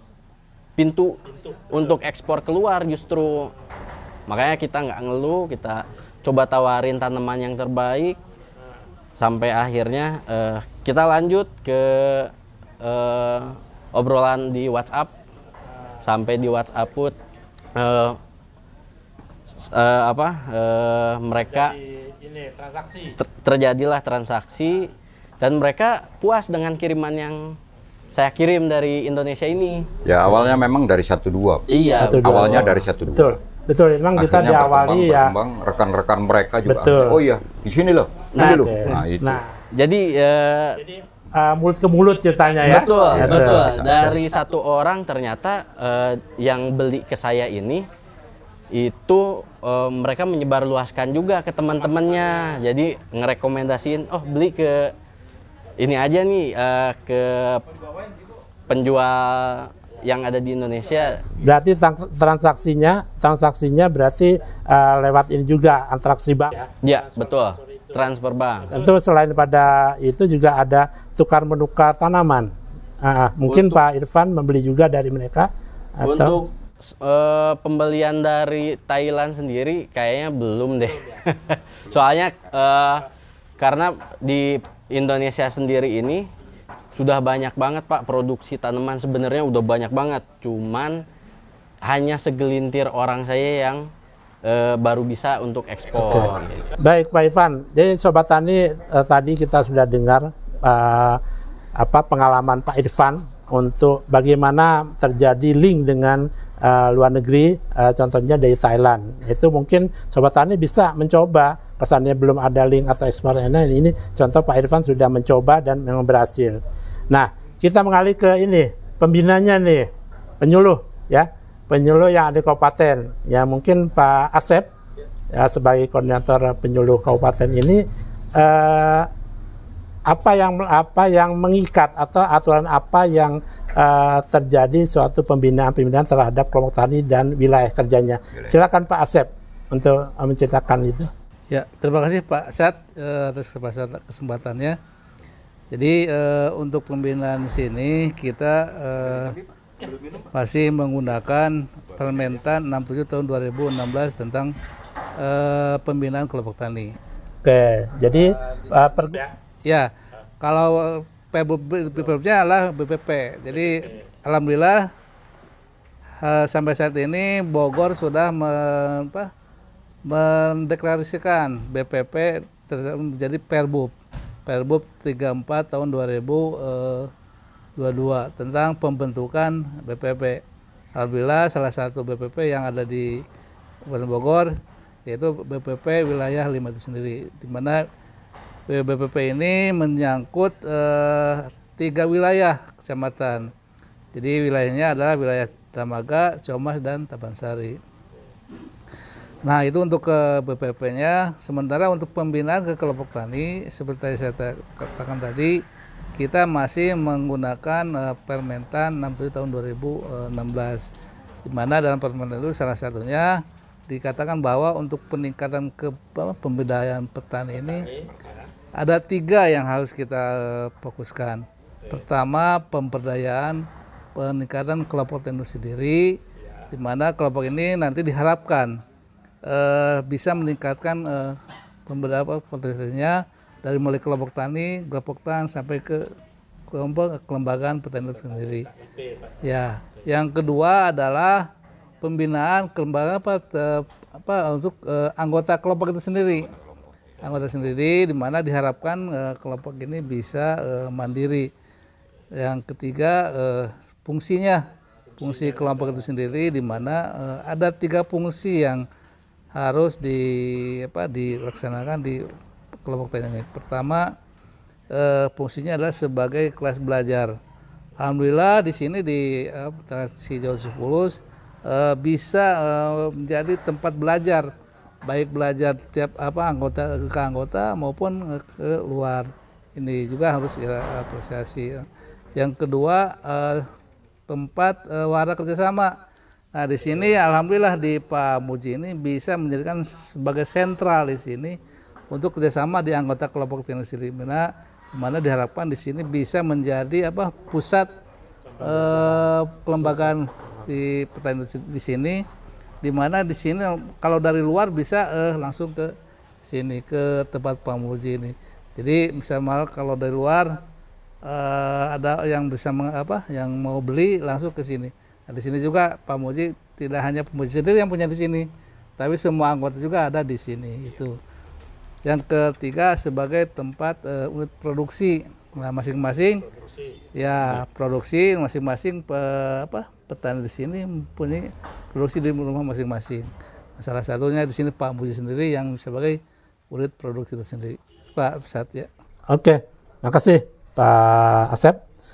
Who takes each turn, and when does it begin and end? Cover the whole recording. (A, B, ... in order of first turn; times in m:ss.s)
0:00.8-0:03.5 A
0:04.3-0:08.2 A
0:09.2-0:15.1 A
0:16.0-0:17.2 A
0:17.7-0:18.2 A
0:19.5-0:21.8 A
0:21.7-0:23.2 B
0:23.2-0:27.6 A
0:28.1-0:29.9 A
0:30.0-0:31.6 C
0:31.7-0:32.7 A
0:32.0-0:35.3 B
0:32.2-0:33.4 C
0:34.2-0:39.4 C
0:36.6-0:37.2 B
0:38.3-0:39.0 A
0:38.4-0:39.4 B
0:39.7-0:40.8 A
0:41.3-0:44.2 B
0:42.6-0:47.9 A
0:43.1-0:44.2 C
0:48.7-0:54.9 A
0:55.8-0:57.7 A
0:58.7-1:01.2 A
1:01.4-1:06.7 B
1:06.8-1:08.8 A
1:08.7-1:16.4 B
1:13.4-1:13.8 A
1:16.0-1:23.1 A
1:23.6-1:26.3 A
1:26.9-1:31.0 A
1:31.8-1:33.9 A
1:34.4-1:36.7 A
1:36.0-1:41.2 B
1:41.8-1:59.9 B
2:00.4-2:04.7 B
2:05.3-2:07.8 B
2:08.3-2:09.1 B
2:10.1-2:21.1 B
2:18.3-2:18.6 C
2:21.5-2:24.8 D
2:25.7-2:29.4 D
2:30.1-2:34.5 D
2:35.2-2:37.0 D
2:37.4-2:39.3 B
2:38.1-2:44.9 D
2:46.2-2:49.3 D
2:50.0-2:53.9 D
2:54.4-2:57.1 D
2:57.8-3:00.4 D
3:00.9-3:03.2 D
3:03.9-3:07.9 D
3:08.7-3:13.5 D
3:14.1-3:17.8 D
3:19.4-3:25.6 D
3:26.2-3:30.9 D
3:31.4-3:37.9 D
3:38.8-3:46.2 D
3:46.7-3:48.8 D
3:49.4-3:56.1 D
3:56.7-3:58.7 D
3:59.4-4:01.5 D
4:02.0-4:06.5 D
4:07.2-4:11.5 D
4:12.4-4:14.6 D
4:15.2-4:18.8 D
4:19.5-4:22.3 D
4:22.8-4:24.1 D
4:24.9-4:27.3 D
4:28.0-4:34.5 D
4:35.0-4:43.7 D
4:44.3-4:46.0 D
4:46.5-4:51.6 D
4:52.1-4:57.9 D
4:58.6-4:58.9 B
4:58.6-5:02.2 D
5:02.8-5:10.6 D
5:11.2-5:21.2 D
5:22.0-5:26.4 D
5:27.1-5:36.2 D
5:36.7-5:38.9 D
5:39.3-5:41.8 B